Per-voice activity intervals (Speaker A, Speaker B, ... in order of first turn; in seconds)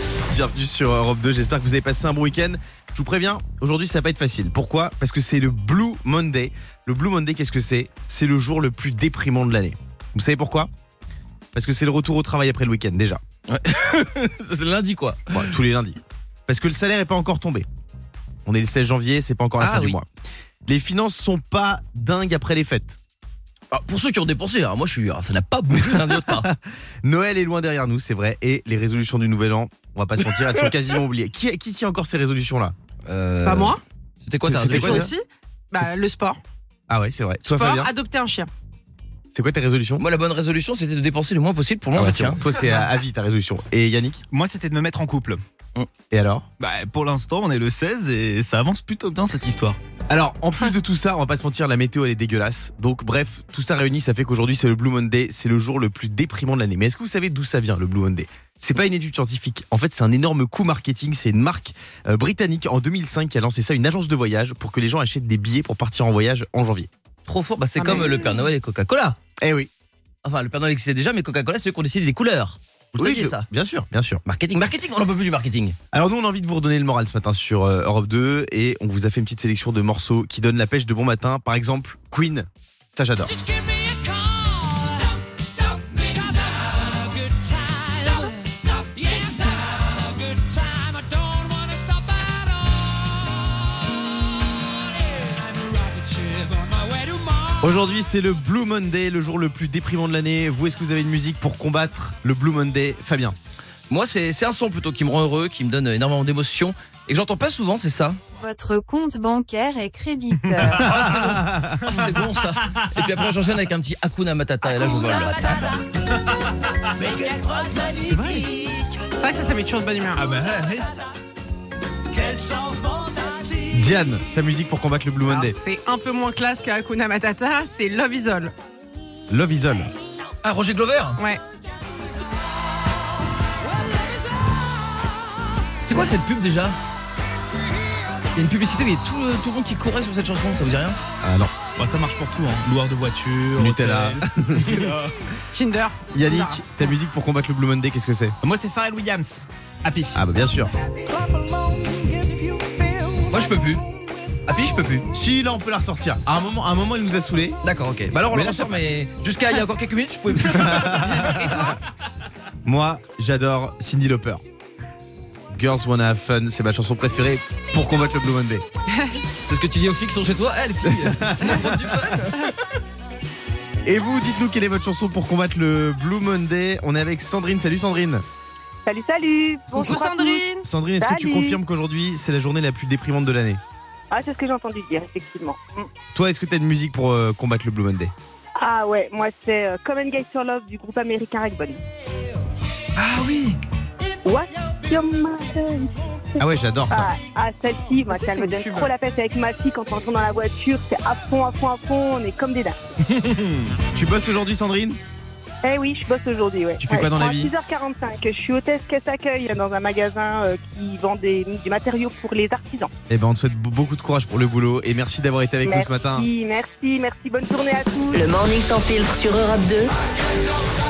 Speaker A: 0.3-10.7, 11.5-13.2, 15.3-17.6, 18.4-20.1, 20.7-23.0, 25.7-32.7, 34.4-35.1, 36.9-37.9, 39.3-40.0, 41.9-44.2, 46.1-46.5, 50.1-66.9, 69.4-69.7, 73.0-74.2, 75.9-83.6, 97.6-103.3, 110.8-111.8, 123.7-125.5, 129.3-129.9, 141.2-141.5, 143.6-144.9, 146.1-148.3, 150.1-150.7, 155.1-157.6, 158.3-159.0, 160.4-161.8, 162.6-164.4, 165.5-168.6, 170.9-172.0, 173.8-178.2, 180.6-183.6, 186.1-188.1, 196.4-197.1, 203.9-205.0, 206.8-207.5, 213.1-216.3
Speaker B: 13.5-15.5, 19.6-20.0, 23.7-26.5, 33.0-35.1, 40.0-42.4, 67.2-69.2, 70.2-73.5, 74.2-75.8, 87.7-88.4, 103.9-108.2, 110.9-111.3, 111.9-115.7, 130.4-131.2, 135.8-136.8, 138.3-141.0, 153.3-153.8, 154.4-155.1, 157.6-161.2, 169.5-172.6
Speaker C: 33.4-33.8, 34.6-36.4, 37.5-38.5, 119.2-120.2, 125.2-128.5, 145.5-146.6, 161.2-161.7, 179.7-180.7, 198.1-198.9
Speaker D: 44.3-45.4, 46.6-49.8, 110.3-112.3, 118.0-118.5, 120.1-120.9, 141.8-145.1, 148.4-150.2, 192.9-193.6
Speaker E: 108.4-110.7
Speaker F: 117.5-118.0, 218.1-219.9
Speaker G: 178.8-180.5, 181.0-181.6, 184.1-185.9, 188.6-191.8, 194.2-202.8, 205.6-212.9, 215.6-218.3